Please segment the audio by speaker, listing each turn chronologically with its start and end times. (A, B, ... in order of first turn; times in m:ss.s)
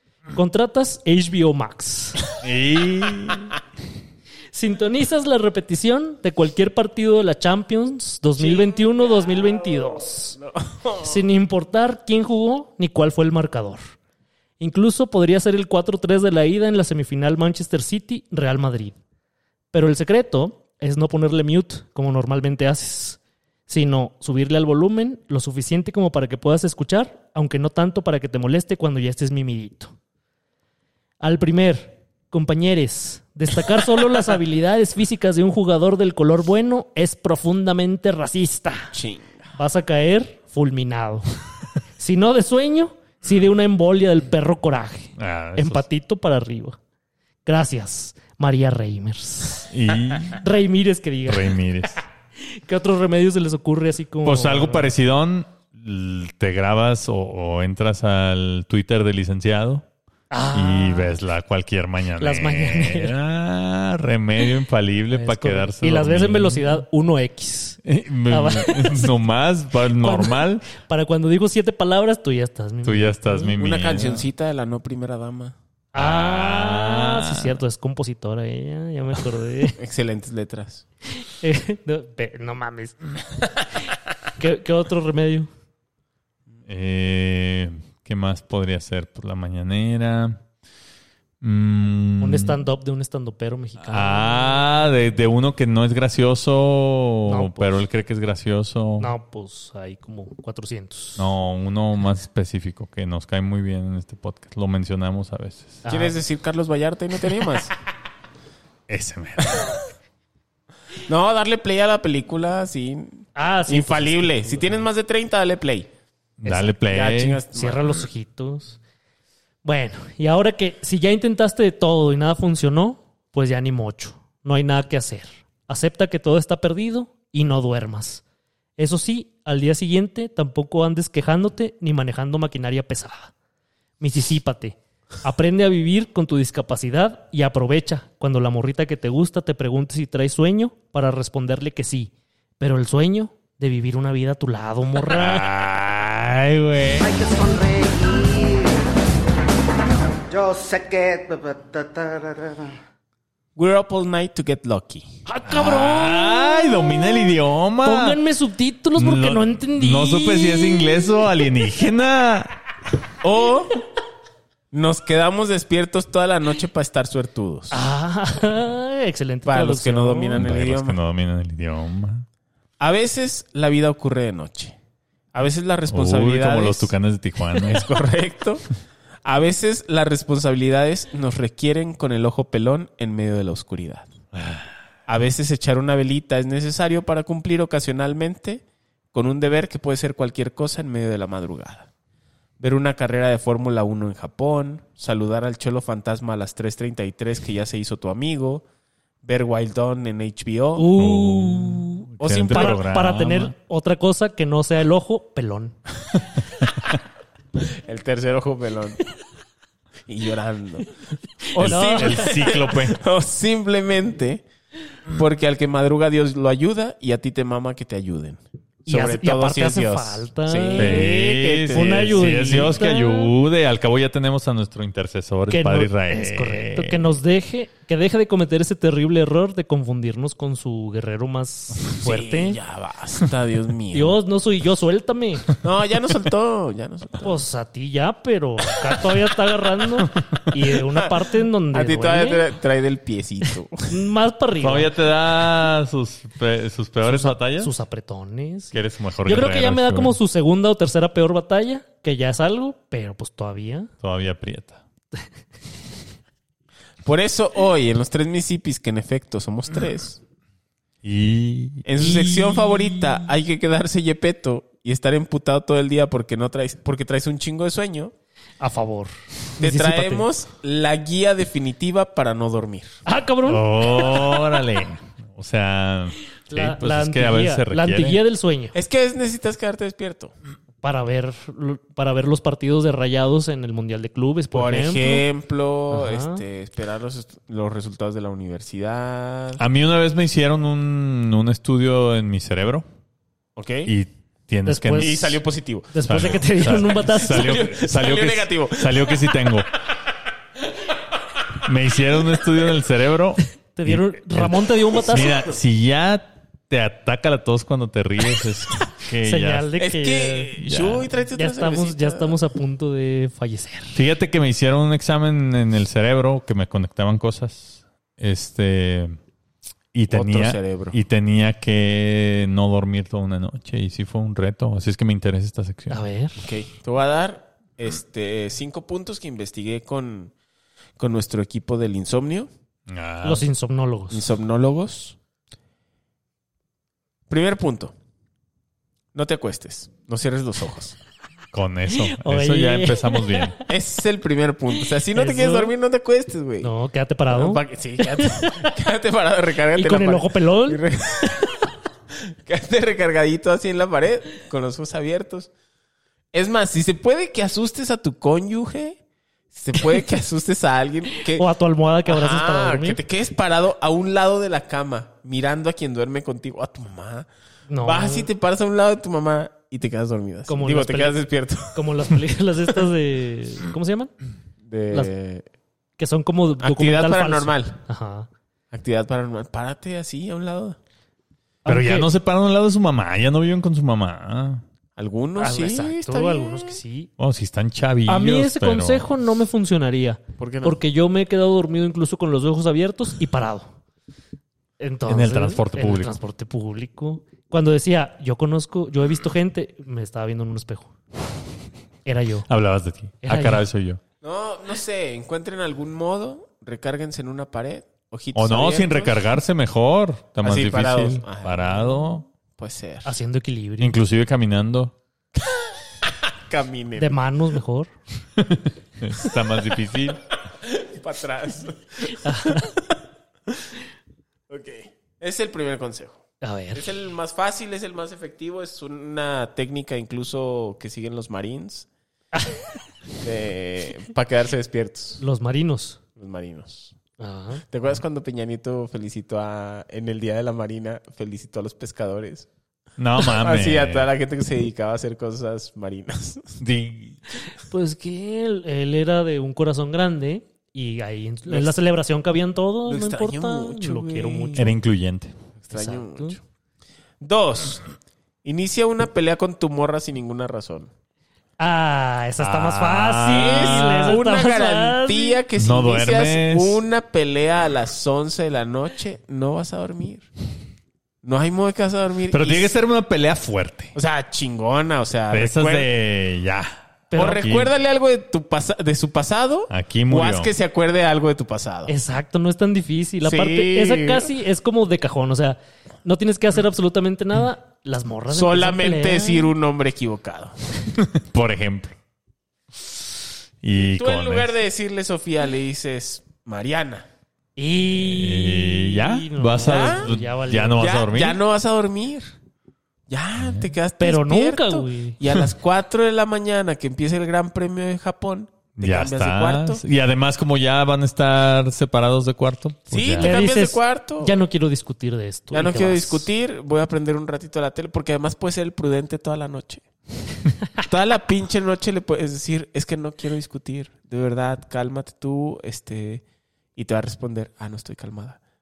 0:00.3-0:02.3 A
0:02.4-0:03.5 B
0:04.5-0:10.4 A
0:08.4-0:11.2 C
0:11.0-0:13.8 A
0:14.6-0:19.0 A
0:19.7-0:29.9 A
0:31.2-0:38.9 A
0:38.9-0:39.5 C
0:39.6-0:41.3 A
0:42.0-0:46.8 A
0:45.2-0:45.8 B
0:47.4-0:49.7 A
0:49.7-0:50.4 B
0:50.3-0:54.9 A
0:51.3-0:52.0 B
0:54.2-0:59.8 B
1:00.3-1:01.2 A
1:00.5-1:06.8 B
1:02.2-1:03.2 A
1:05.1-1:09.1 A
1:07.8-1:10.7 B
1:10.0-1:13.5 A
1:12.8-1:14.2 B
1:13.6-1:15.6 C
1:15.9-1:19.8 A
1:15.9-1:17.6 B
1:19.8-1:20.8 C
1:21.2-1:23.2 A
1:24.4-1:25.5 A
1:26.7-1:30.4 B
1:31.4-1:32.6 B
1:32.2-1:34.7 A
1:33.8-1:39.1 B
1:37.3-1:37.7 A
1:39.0-1:41.2 A
1:41.2-1:45.8 B
1:45.8-1:46.2 A
1:45.9-1:47.7 C
1:48.9-1:49.7 B
1:51.0-1:55.9 C
1:53.4-1:54.8 A
1:56.4-1:57.4 B
1:56.8-1:57.9 C
1:57.5-1:58.8 A
1:59.6-2:08.2 A
2:08.8-2:13.3 A
2:14.0-2:25.5 A
2:25.1-2:27.1 B
2:27.0-2:28.9 D
2:30.3-2:32.8 D
2:33.6-2:35.0 C
2:35.3-2:41.2 A
2:35.4-2:38.2 B
2:39.0-2:42.5 B
2:43.2-2:43.7 C
2:44.7-2:47.8 C
2:47.7-2:50.4 A
2:49.4-2:51.0 C
2:50.4-2:52.2 B
2:52.8-2:54.8 C
2:55.3-2:56.9 C
2:55.9-2:57.8 B
2:57.6-2:58.6 C
2:59.2-3:04.1 C
3:04.3-3:04.7 B
3:05.1-3:11.9 C
3:12.6-3:18.6 C
3:19.2-3:20.9 C
3:20.8-3:25.8 A
3:21.0-3:23.5 B
3:22.2-3:22.8 C
3:27.6-3:29.0 C
3:30.1-3:30.9 C
3:31.5-3:34.4 C
3:31.5-3:33.0 B
3:31.6-3:32.4 A
3:35.1-3:42.4 C
3:38.8-3:43.3 A
3:40.8-3:47.0 B
3:45.5-3:52.6 A
3:51.9-3:54.2 C
3:53.9-3:55.6 A
3:55.6-3:57.4 C
3:57.2-4:02.5 A
4:01.7-4:03.9 C
4:03.9-4:04.9 A
4:04.6-4:07.7 B
4:07.0-4:13.9 A
4:08.7-4:10.2 B
4:14.0-4:14.8 B
4:17.0-4:20.2 C
4:21.0-4:21.8 B
4:21.8-4:28.1 C
4:22.0-4:23.1 A
4:28.6-4:30.3 A
4:29.6-4:32.9 C
4:33.0-4:34.4 A
4:33.5-4:38.2 B
4:36.5-4:38.7 A
4:38.7-4:40.3 C
4:40.8-4:45.2 A
4:44.5-4:49.6 C
4:45.9-4:46.4 A
4:49.6-4:52.8 B
4:53.6-4:53.9 C
4:53.8-4:55.4 B
4:54.6-4:55.3 A
4:55.0-4:56.3 C
4:55.9-4:57.6 A
4:56.0-4:59.7 B
4:57.3-4:59.3 C
5:01.6-5:09.7 B
5:03.7-5:05.4 A
5:09.2-5:10.5 A
5:09.8-5:12.4 C
5:10.6-5:11.1 B
5:11.3-5:14.0 A
5:13.9-5:19.2 B
5:19.9-5:26.0 B
5:20.1-5:21.0 C
5:25.9-5:26.4 A
5:26.4-5:30.3 C
5:31.0-5:32.5 C
5:32.9-5:33.4 B
5:33.2-5:34.3 A
5:34.1-5:35.2 C
5:37.3-5:37.9 C
5:39.1-5:41.0 C
5:41.5-5:43.5 B
5:42.1-5:43.6 A
5:43.7-5:46.7 C
5:45.1-5:45.7 A
5:46.6-5:48.8 A
5:47.3-5:51.5 C
5:49.7-5:51.3 A
5:52.3-5:55.5 C
5:56.3-5:59.0 C
5:59.5-6:01.5 C
6:01.2-6:03.0 A
6:02.0-6:07.3 C
6:07.7-6:08.3 A
6:07.8-6:11.9 C
6:10.5-6:11.2 A
6:11.7-6:14.1 A
6:14.6-6:15.4 C
6:16.0-6:18.3 A
6:16.6-6:17.8 C
6:18.7-6:20.8 C
6:21.6-6:22.1 A
6:21.6-6:24.6 B
6:25.0-6:26.8 C
6:25.4-6:27.1 A
6:27.2-6:29.0 B
6:28.1-6:33.7 A
6:30.4-6:30.8 C
6:34.8-6:40.9 A
6:35.1-6:36.1 B
6:42.0-6:42.5 A
6:42.5-6:44.0 B
6:43.2-6:43.6 A
6:44.2-6:49.2 C
6:48.3-6:52.3 B
6:50.4-6:53.1 C
6:53.0-6:54.0 A
6:53.8-6:54.9 B
6:56.1-6:57.2 C
6:57.0-6:57.9 A
6:58.4-7:00.2 B
7:00.6-7:02.9 C
7:02.2-7:02.7 A
7:04.5-7:06.2 C
7:06.4-7:06.9 A
7:06.7-7:11.9 C
7:13.2-7:15.2 C
7:15.2-7:16.0 A
7:16.2-7:16.9 C
7:17.2-7:17.6 A
7:17.7-7:22.5 C
7:23.0-7:24.1 B
7:23.2-7:26.6 C
7:26.6-7:27.2 B
7:27.7-7:34.7 A
7:31.4-7:31.7 C
7:32.8-7:34.6 C
7:34.6-7:35.3 B
7:35.6-7:36.4 C
7:35.7-7:36.4 A
7:37.2-7:37.9 C
7:38.4-7:40.9 C
7:41.6-7:45.4 A
7:42.4-7:43.6 B
7:43.3-7:50.2 C
7:45.6-7:46.8 B
7:51.2-7:52.7 C
7:52.3-7:53.9 B
7:53.9-7:55.9 C
7:55.3-7:57.7 B
7:57.1-7:57.4 A
7:57.2-8:02.0 C
7:59.7-8:00.5 B
8:01.9-8:09.5 A
8:03.2-8:04.3 C
8:08.3-8:10.5 C
8:11.0-8:11.9 B
8:13.6-8:14.5 B
8:13.8-8:17.1 C
8:17.6-8:21.0 A
8:17.9-8:21.4 B
8:19.6-8:20.1 C
8:20.8-8:22.3 C
8:23.1-8:29.8 C
8:23.4-8:23.7 B
8:24.0-8:25.2 A
8:28.8-8:33.4 B
8:32.9-8:34.4 C
8:33.2-8:36.2 A
8:35.5-8:39.8 C
8:40.8-8:46.2 C
8:46.8-8:48.4 C